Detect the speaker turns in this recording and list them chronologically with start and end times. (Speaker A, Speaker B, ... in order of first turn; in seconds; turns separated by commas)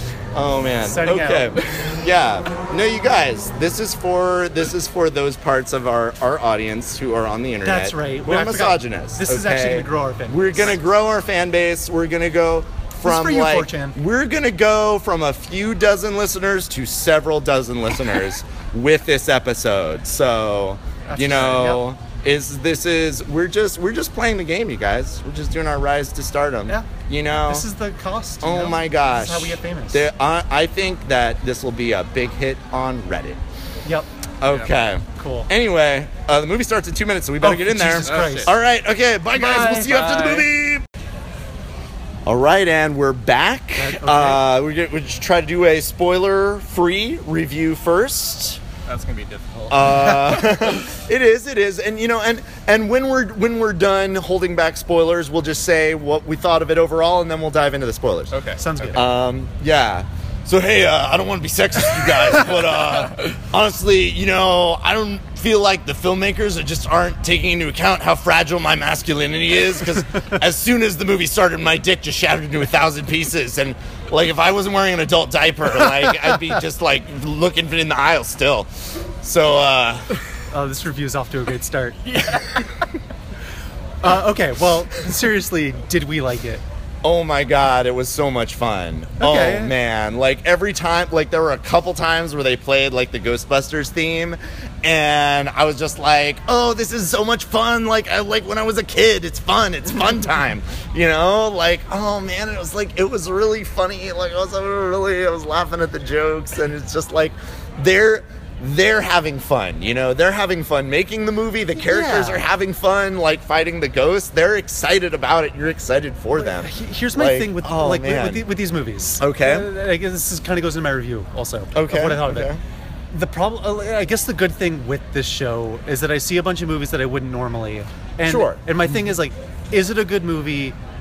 Speaker A: 0.3-27.7, Speaker B: 0.8-1.5, Speaker B: 7.6-10.8, Speaker B: 13.0-14.0, Speaker B: 21.1-21.8, Speaker B: 27.5-30.1, Speaker A: 28.4-33.4, Speaker A: 34.4-40.8, Speaker B: 35.1-35.5, Speaker B: 37.4-38.5, Speaker C: 38.0-38.5, Speaker B: 39.3-40.0, Speaker C: 39.7-40.5, Speaker A: 42.2-48.6, Speaker B: 43.8-44.4, Speaker C: 48.9-50.7, Speaker A: 49.7-78.7, Speaker C: 58.3-58.7, Speaker B: 58.6-59.1, Speaker A: 79.2-80.1, Speaker B: 80.5-82.1, Speaker B: 84.0-86.6, Speaker A: 87.0-118.4, Speaker B: 89.2-89.7, Speaker B: 111.8-112.4, Speaker B: 116.3-122.5, Speaker A: 119.2-119.7, Speaker A: 121.7-122.6, Speaker B: 123.1-130.8, Speaker A: 128.2-128.6